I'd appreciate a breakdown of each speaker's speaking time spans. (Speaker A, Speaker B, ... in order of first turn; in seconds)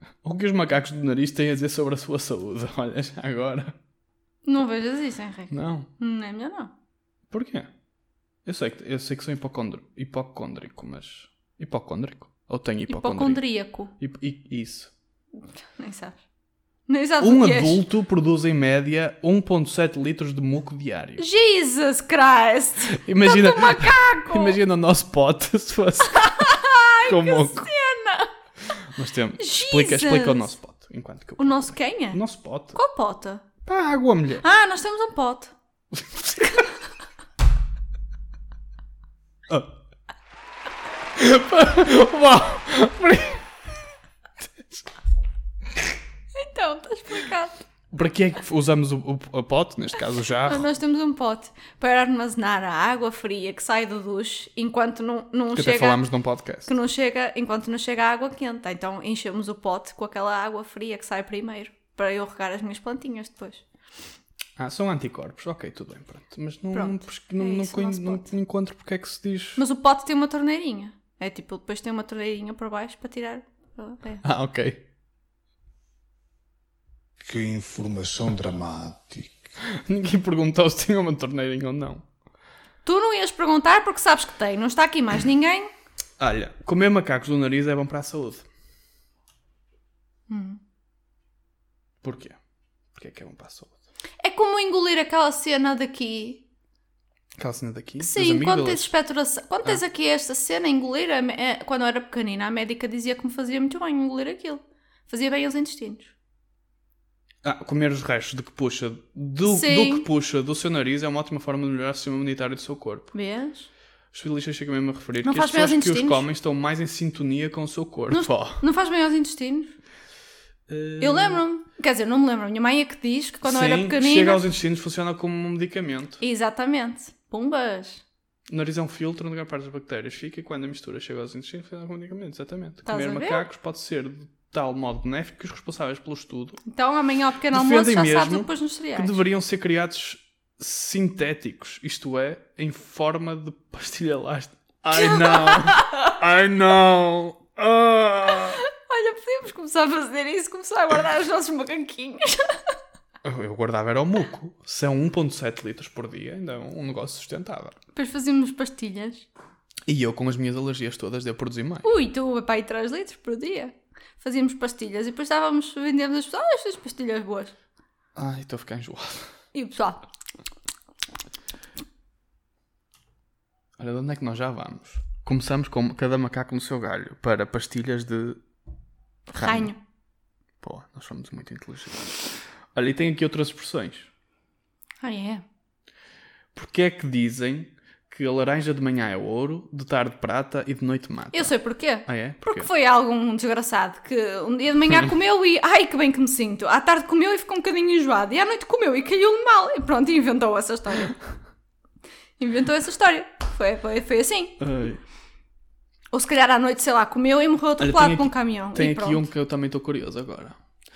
Speaker A: 0.2-3.7, 5.5-5.9, 7.3-7.7, 8.4-13.4, 14.0-14.9, 17.2-21.2, 22.9-27.7, 28.9-32.8, 33.6-34.4, 36.0-36.5, 39.5-39.7, 41.1-43.5, 44.4-44.8, 47.9-50.7, 55.5-56.7, 64.6-69.6, 74.2-74.8, 79.6-82.0, 86.2-88.4, 92.0-92.4, 92.9-93.7, 97.4-98.9, 107.4-113.1, 114.1-118.6, 120.7-121.4, 123.4-126.2, 128.5-136.6, 137.5-148.6, 153.2-157.7, 159.9-161.9, 168.2-169.3, 173.8-178.4, 179.3-179.7, 180.6-184.1, 186.5-192.7, 204.6-205.0, 207.8-210.6
Speaker B: 4.4-6.7, 12.9-13.9, 15.6-16.2, 16.9-17.8, 21.2-24.6, 26.0-28.3, 29.4-30.5, 31.4-32.2, 32.7-33.4, 34.4-35.5, 36.3-36.9, 46.3-47.5, 50.4-56.0, 56.6-63.6, 66.7-68.3, 69.6-74.2, 82.8-85.7, 90.3-90.6, 94.2-96.4, 98.0-106.1, 109.4-110.1, 113.1-113.7, 115.2-116.2, 118.1-119.7, 121.0-124.4, 126.2-128.0, 132.8-133.5, 136.7-139.2, 144.9-146.1, 148.4-152.7, 157.9-159.3, 161.8-167.5, 169.5-170.0, 179.3-179.8, 185.0-185.4, 191.3-201.2, 202.4-204.6, 206.1-209.3
Speaker C: 77.2-79.3